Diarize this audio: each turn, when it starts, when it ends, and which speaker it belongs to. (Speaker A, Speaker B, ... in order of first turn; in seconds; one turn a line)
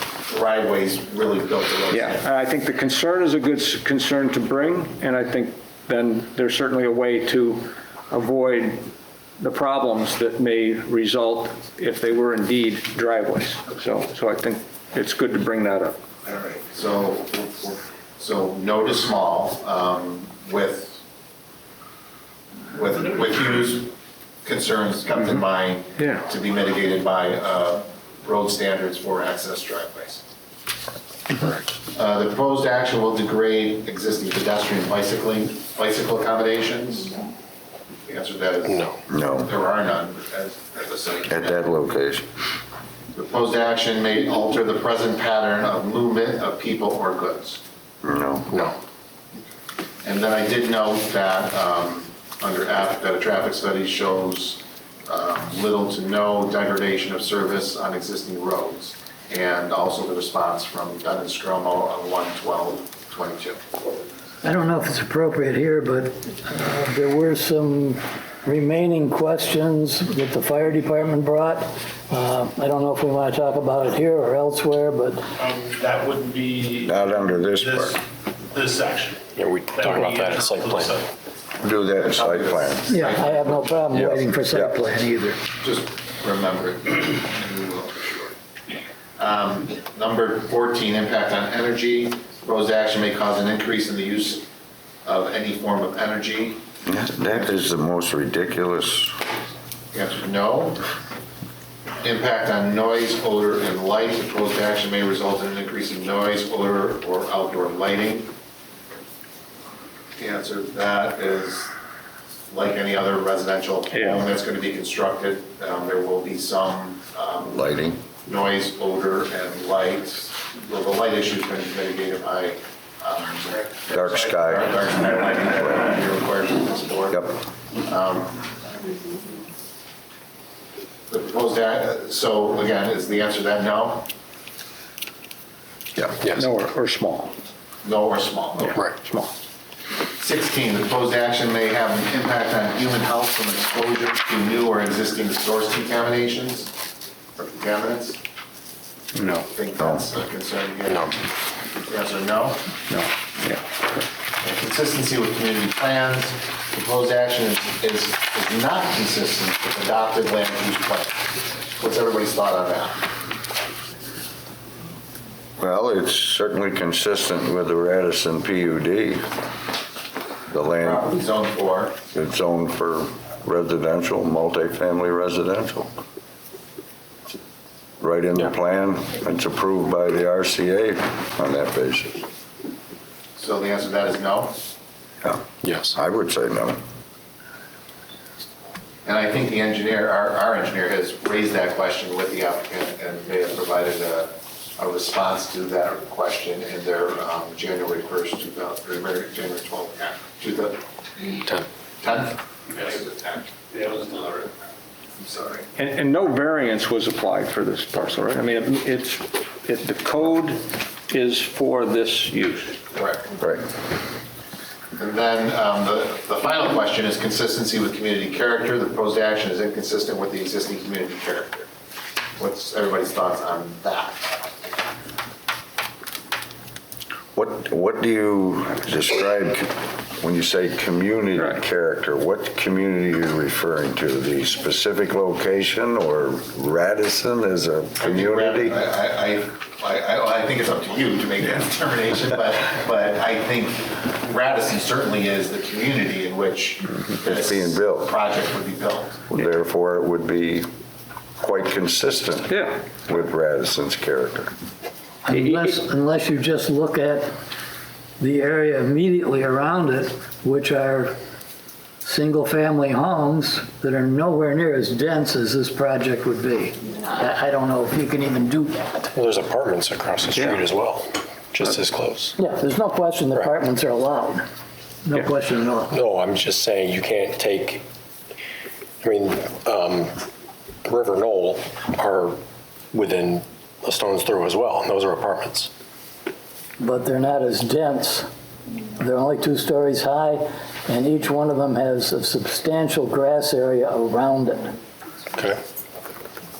Speaker A: 0.3-2.3
Speaker B: 1.9-8.8
Speaker B: 9.4-16.0
Speaker A: 16.2-21.0
Speaker A: 22.7-23.9
Speaker A: 24.4-30.2
Speaker A: 31.9-37.2
Speaker A: 38.0-41.6
Speaker C: 38.7-39.0
Speaker D: 39.1-39.5
Speaker D: 41.3-42.2
Speaker A: 43.1-47.6
Speaker D: 48.0-48.5
Speaker A: 50.0-63.6
Speaker E: 64.4-75.2
Speaker F: 75.4-76.9
Speaker D: 76.8-78.0
Speaker F: 77.6-77.9
Speaker F: 78.5-79.2
Speaker C: 79.3-81.0
Speaker F: 79.7-81.0
Speaker D: 81.6-82.9
Speaker A: 82.0-83.8
Speaker E: 82.9-85.4
Speaker D: 83.9-84.8
Speaker A: 85.6-88.3
Speaker A: 89.2-94.5
Speaker A: 95.0-96.6
Speaker D: 96.9-99.1
Speaker A: 99.9-100.8
Speaker A: 102.0-108.3
Speaker A: 110.2-111.7
Speaker A: 112.5-117.6
Speaker B: 113.9-114.2
Speaker D: 117.5-118.0
Speaker A: 118.2-128.5
Speaker D: 123.9-124.8
Speaker A: 131.1-134.1
Speaker C: 136.2-136.5
Speaker B: 136.3-137.3
Speaker A: 137.8-138.8
Speaker C: 138.7-139.0
Speaker B: 139.0-139.3
Speaker A: 140.2-146.7
Speaker A: 147.4-148.2
Speaker B: 149.2-149.4
Speaker A: 149.4-151.2
Speaker C: 150.9-151.1
Speaker A: 151.8-152.6
Speaker B: 152.9-153.6
Speaker A: 154.4-163.0
Speaker D: 165.6-169.3
Speaker D: 170.5-171.1
Speaker A: 170.8-172.0
Speaker D: 172.1-175.9
Speaker D: 178.0-182.2
Speaker A: 183.4-184.6
Speaker D: 185.2-186.8
Speaker C: 185.6-186.0
Speaker A: 189.1-201.4
Speaker A: 202.0-204.5
Speaker A: 205.2-205.7
Speaker B: 205.8-212.8
Speaker A: 212.9-213.3
Speaker A: 215.0-221.7
Speaker A: 222.4-224.4
Speaker D: 227.3-238.8
Speaker A: 238.0-249.2
Speaker D: 247.2-248.1
Speaker D: 249.3-250.7
Speaker D: 251.4-254.5
Speaker B: 252.5-252.8
Speaker E: 255.2-257.3
Speaker B: 255.3-255.8
Speaker E: 258.2-261.1
Speaker E: 262.0-269.1
Speaker C: 269.1-272.4
Speaker B: 270.4-270.6
Speaker E: 272.4-274.4
Speaker E: 275.1-275.9
Speaker C: 275.9-277.8
Speaker C: 279.0-280.2
Speaker C: 280.9-282.4
Speaker C: 282.9-285.7
Speaker E: 286.8-288.3
Speaker E: 289.0-294.8
Speaker C: 295.4-295.6